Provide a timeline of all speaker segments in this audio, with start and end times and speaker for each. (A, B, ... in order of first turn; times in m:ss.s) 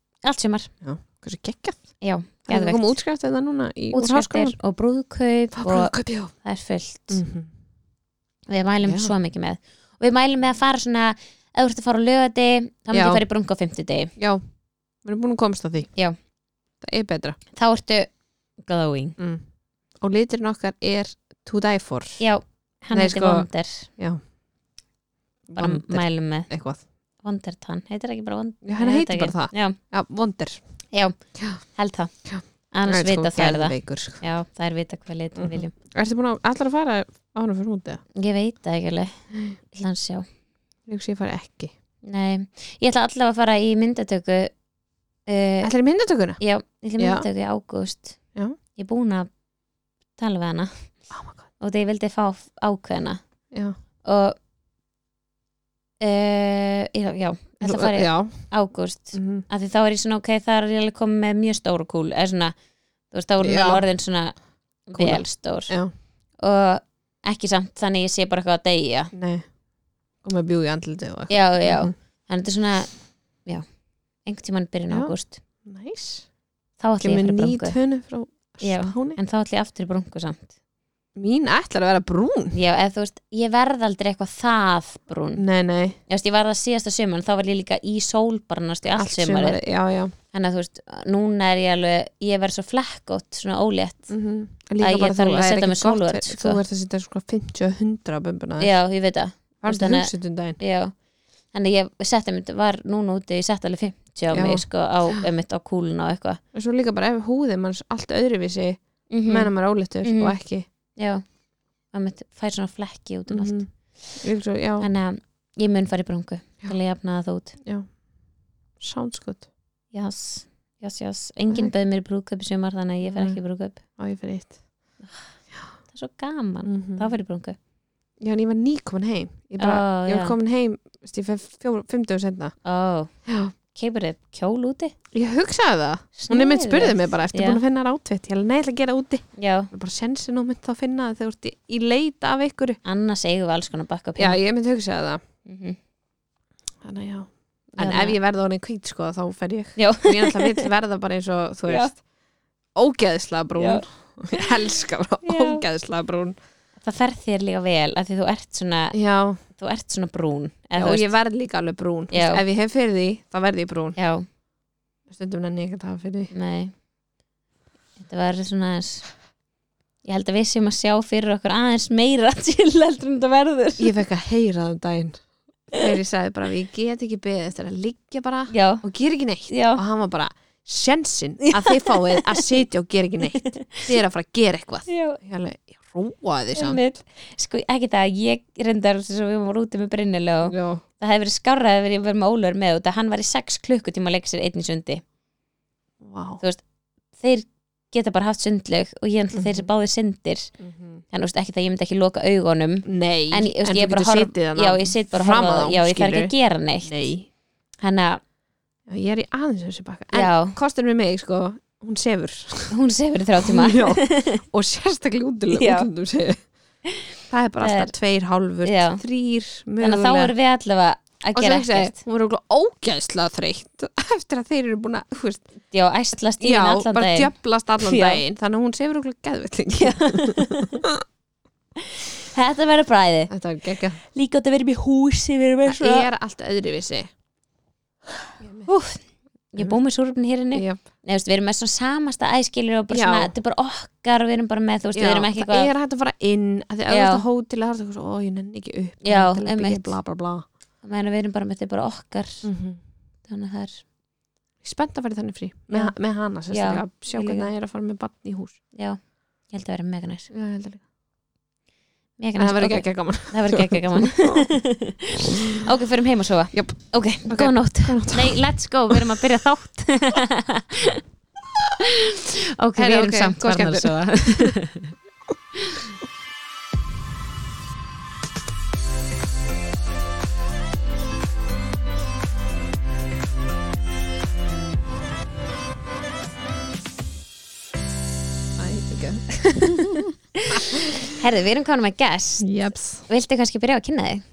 0:00.2-0:00.7 A
0:00.8-0:04.6 B
0:02.0-0:03.0 A
0:03.9-0:07.2 A
0:05.5-0:06.3 B
0:07.1-0:07.5 B
0:08.5-0:14.1 A
0:08.8-0:09.1 B
0:12.9-0:13.2 B
0:14.2-0:16.0 B
0:16.8-0:17.4 B
0:17.5-0:19.2 A
0:19.2-0:19.4 B
0:20.0-0:22.2 B
0:22.2-0:23.9 A
0:22.9-0:24.2 B
0:25.5-0:26.8 B
0:25.6-0:26.5 A
0:27.2-0:29.8 A
0:28.6-0:30.6 B
0:30.9-0:32.1 A
0:31.4-0:31.6 B
0:32.2-0:34.2 B
0:32.7-0:35.7 A
0:35.4-0:38.0 B
0:38.2-0:40.2 A
0:40.9-0:41.7 B
0:42.0-0:44.5 A
0:45.2-0:45.7 A
0:45.6-0:46.4 B
0:46.4-0:48.2 A
0:47.0-0:47.3 B
0:48.7-0:49.3 A
0:50.2-0:51.1 A
0:51.1-0:51.4 B
0:51.6-0:53.2 A
0:53.5-0:53.8 B
0:54.0-0:54.4 A
0:56.0-1:02.6 A
0:57.6-0:59.4 B
1:03.1-1:05.7 A
1:03.4-1:03.8 B
1:04.9-1:05.9 B
1:06.3-1:09.1 A
1:09.1-1:09.5 B
1:10.2-1:11.9 B
1:11.3-1:12.9 A
1:14.2-1:15.4 A
1:14.9-1:16.3 B
1:16.8-1:17.8 A
1:17.0-1:19.2 B
1:18.6-1:20.5 A
1:21.1-1:22.6 B
1:22.5-1:25.4 A
1:25.4-1:26.0 B
1:26.1-1:29.6 A
1:29.0-1:30.1 B
1:30.3-1:34.1 A
1:34.1-1:38.8 B
1:34.8-1:36.6 A
1:38.6-1:46.4 A
1:39.6-1:40.6 B
1:44.3-1:45.3 B
1:46.5-1:50.6 B
1:49.1-1:50.4 A
1:50.9-1:51.3 A
1:51.9-1:54.0 A
1:53.3-1:54.9 B
1:54.8-1:57.6 A
1:57.6-1:58.0 B
1:58.8-1:59.5 B
1:59.9-2:03.8 A
2:03.0-2:03.4 B
2:04.0-2:04.6 B
2:05.0-2:05.3 A
2:05.8-2:07.6 A
2:06.6-2:07.1 B
2:08.2-2:12.6 B
2:09.6-2:10.3 A
2:12.6-2:13.1 A
2:13.2-2:13.5 B
2:13.6-2:14.9 A
2:15.1-2:22.8 B
2:16.2-2:17.6 A
2:19.4-2:19.7 A
2:22.8-2:24.4 A
2:24.2-2:25.2 B
2:25.4-2:25.8 A
2:26.8-2:32.0 B
2:27.7-2:28.2 A
2:29.8-2:30.6 A
2:31.7-2:31.9 A
2:32.7-2:36.4 B
2:33.6-2:33.8 A
2:35.2-2:35.6 A
2:36.8-2:41.1 A
2:38.9-2:39.4 B
2:40.8-2:44.0 B
2:42.1-2:42.4 A
2:44.0-2:44.2 A
2:45.1-2:46.3 B
2:46.3-2:46.7 A
2:48.0-2:49.2 A
2:50.0-2:53.9 A
2:53.8-3:06.8 B
2:58.5-2:58.8 A
2:59.5-2:59.8 A
3:01.4-3:02.4 A
3:03.3-3:03.9 A
3:04.9-3:05.2 A
3:06.5-3:15.0 A
3:10.5-3:10.8 B
3:16.0-3:16.4 B
3:17.2-3:20.5 A
3:19.3-3:19.7 B
3:20.6-3:21.0 B
3:21.1-3:26.9 A
3:22.8-3:27.3 B
3:27.8-3:28.2 A
3:28.9-3:32.7 B
3:30.1-3:30.6 A
3:32.7-3:34.4 A
3:33.4-3:36.4 B
3:35.5-3:35.9 A
3:37.3-3:40.3 B
3:37.6-3:37.9 A
3:38.6-3:39.0 A
3:39.8-3:42.0 A
3:41.3-3:45.5 B
3:45.7-3:48.2 A
3:46.4-3:51.0 B
3:49.8-3:50.8 A
3:52.3-3:53.3 A
3:53.3-3:54.0 B
3:54.1-3:56.1 A
3:55.6-3:57.1 B
3:58.4-3:58.7 B
3:58.6-3:59.0 A
3:59.5-4:05.7 A
4:00.5-4:00.8 B
4:02.9-4:03.3 B
4:04.9-4:10.4 B
4:06.9-4:07.2 A
4:09.0-4:10.0 A
4:10.8-4:12.5 A
4:12.4-4:12.8 B
4:13.3-4:13.8 A
4:14.6-4:18.6 B
4:16.5-4:17.5 A
4:18.7-4:20.3 A
4:20.3-4:20.8 B
4:22.2-4:31.0 A
4:22.4-4:24.4 B
4:26.5-4:29.0 B
4:32.6-4:34.9 A
4:32.8-4:34.5 B
4:48.6-4:49.8 B
4:50.5-4:51.0 B
4:50.5-4:52.5 A
4:52.4-4:53.0 B
4:53.0-4:54.2 A